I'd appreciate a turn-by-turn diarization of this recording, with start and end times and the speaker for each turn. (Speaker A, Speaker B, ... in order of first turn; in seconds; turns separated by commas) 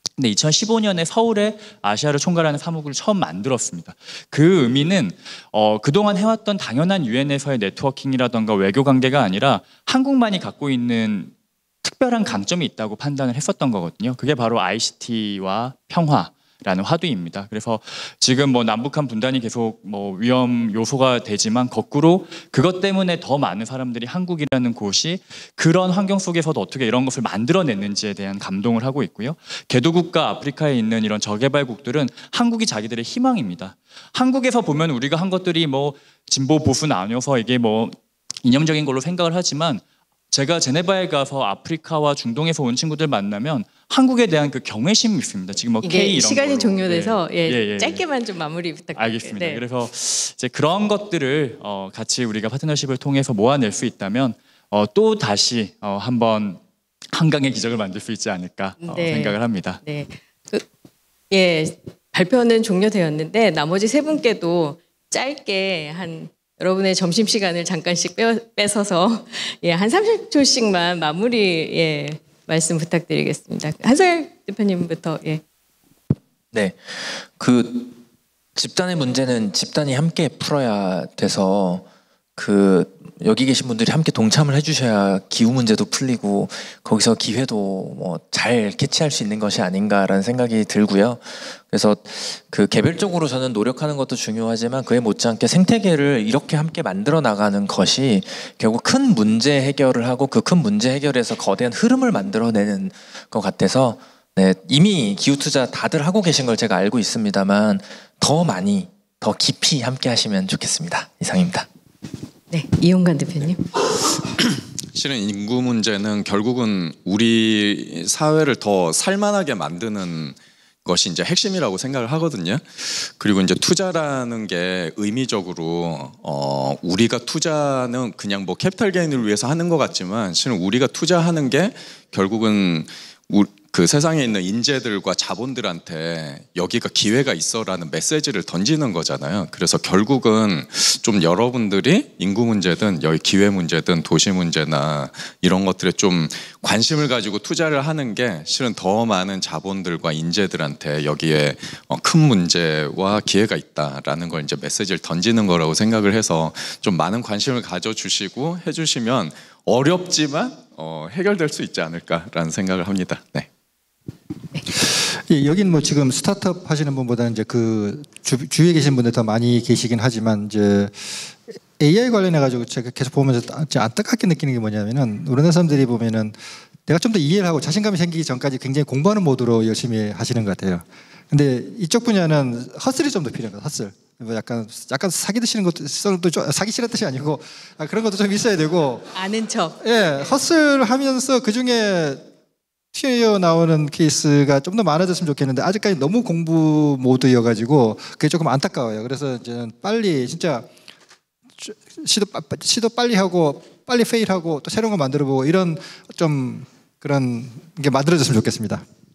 Speaker A: 0.2-48.0, Speaker B: 45.8-49.6, Speaker A: 49.0-56.6, Speaker A: 57.1-59.8, Speaker B: 58.8-60.6, Speaker B: 61.3-75.4, Speaker C: 76.5-78.0, Speaker C: 78.6-111.7, Speaker B: 112.5-113.6, Speaker D: 114.9-163.5, Speaker E: 164.8-189.1, Speaker B: 189.2-189.8, Speaker E: 189.8-192.2, Speaker E: 192.9-200.7, Speaker E: 201.6-208.8